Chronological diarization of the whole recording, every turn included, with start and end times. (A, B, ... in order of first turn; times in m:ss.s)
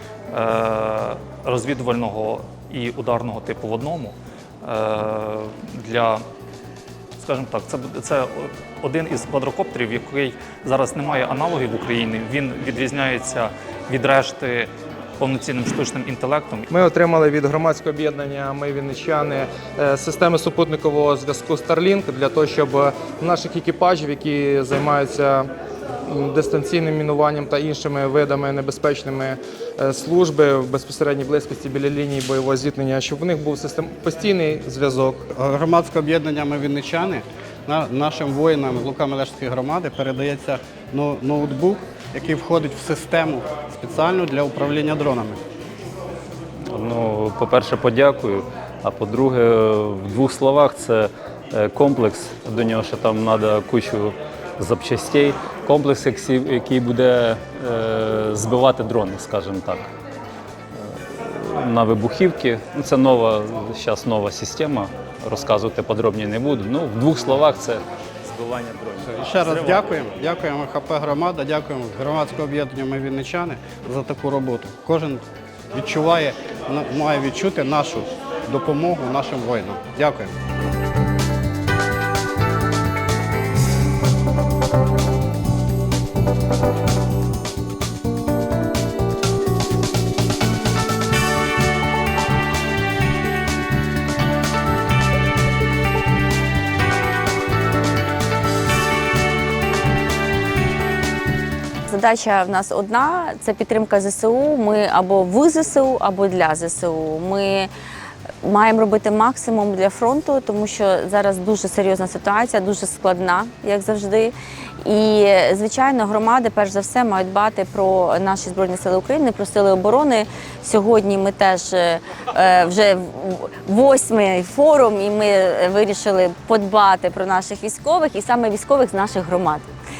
0:00.3-0:06.2 A
0:07.2-0:16.7 A
0:16.7-0:25.5 B
0:26.1-0:35.2 B
0:35.3-0:45.4 C
0:46.7-0:59.9 D
1:00.8-1:09.8 D
1:09.1-1:20.3 C
1:41.9-1:47.7 E
1:48.4-2:09.7 E